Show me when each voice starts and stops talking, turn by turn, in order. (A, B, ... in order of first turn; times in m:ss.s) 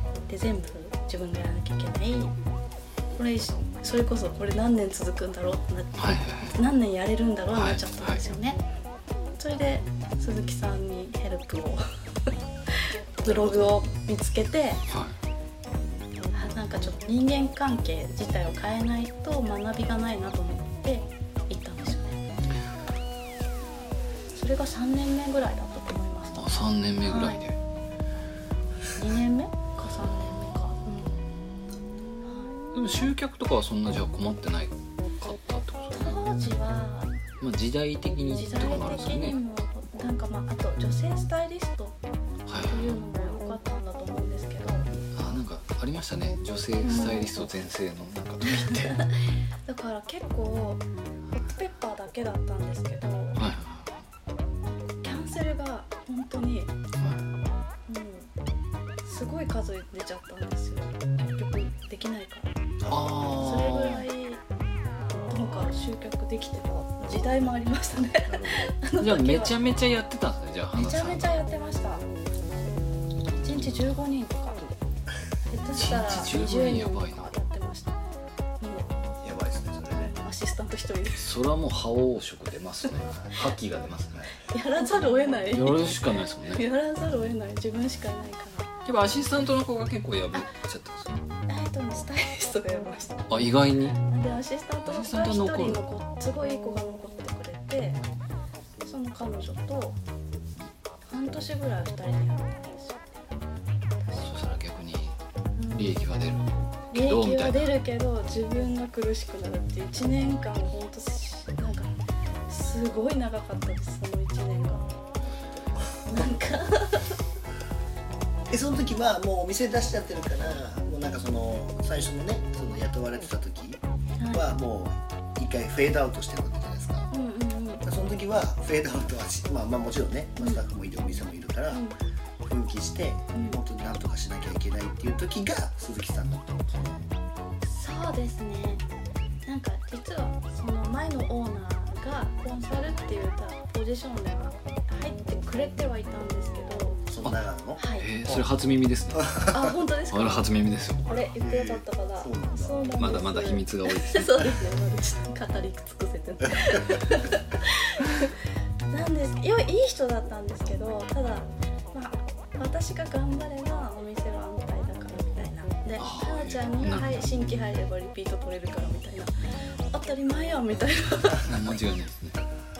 0:00.3-0:02.4 A
0:03.2-0:08.6 A
0:06.0-0:06.5 B
0:07.5-0:08.2 B
0:09.4-0:11.8 A
0:13.2-0:14.8 A
0:13.2-0:13.8 C
0:16.3-0:22.2 A
0:24.3-0:27.4 A
0:26.4-0:27.6 B
0:28.9-0:31.2 A
0:32.2-0:32.6 A
0:32.7-0:36.2 B
0:35.9-0:37.1 A
0:37.4-0:39.4 B
0:38.3-0:42.0 A
0:42.5-0:43.0 B
0:42.6-0:44.8 A
0:45.1-0:49.0 B
0:46.8-0:47.3 A
0:48.4-0:49.0 A
0:49.6-0:53.4 A
0:53.4-0:54.0 B
0:55.0-0:56.7 A
0:57.0-0:57.2 B
0:57.9-0:58.3 A
0:59.0-1:02.5 A
1:02.8-1:03.2 C
1:02.9-1:04.0 B
1:03.2-1:04.4 A
1:05.1-1:09.5 A
1:07.0-1:08.7 C
1:09.0-1:11.4 B
1:10.7-1:12.1 A
1:13.3-1:14.6 A
1:15.5-1:18.0 A
1:15.7-1:17.3 B
1:18.6-1:18.9 A
1:19.2-1:20.1 C
1:19.9-1:21.3 A
1:21.1-1:24.2 B
1:24.5-1:28.7 A
1:25.5-1:26.6 B
1:28.8-1:31.2 B
1:31.5-1:33.3 A
1:33.3-1:34.0 B
1:34.0-1:38.0 A
1:34.8-1:35.8 B
1:38.8-1:40.0 A
1:41.1-1:43.2 A
1:44.0-1:44.3 A
1:44.2-1:45.2 B
1:45.6-1:46.0 A
1:45.7-1:47.7 B
1:46.9-1:51.9 A
1:52.5-1:57.2 A
1:58.5-2:03.8 C
2:04.2-2:04.5 A
2:04.3-2:07.1 C
2:07.1-2:07.8 A
2:07.8-2:11.8 C
2:12.4-2:17.0 C
2:13.3-2:13.6 A
2:17.6-2:18.8 A
2:19.4-2:27.0 A
2:27.1-2:28.5 C
2:27.8-2:28.1 A
2:28.0-2:29.3 B
2:29.2-2:29.6 C
2:29.5-2:30.5 A
2:30.1-2:31.2 B
2:31.0-2:38.3 A
2:31.4-2:32.8 C
2:33.0-2:34.4 B
2:38.9-2:49.3 A
2:46.0-2:47.3 B
2:49.9-2:51.5 A
2:51.4-2:52.4 B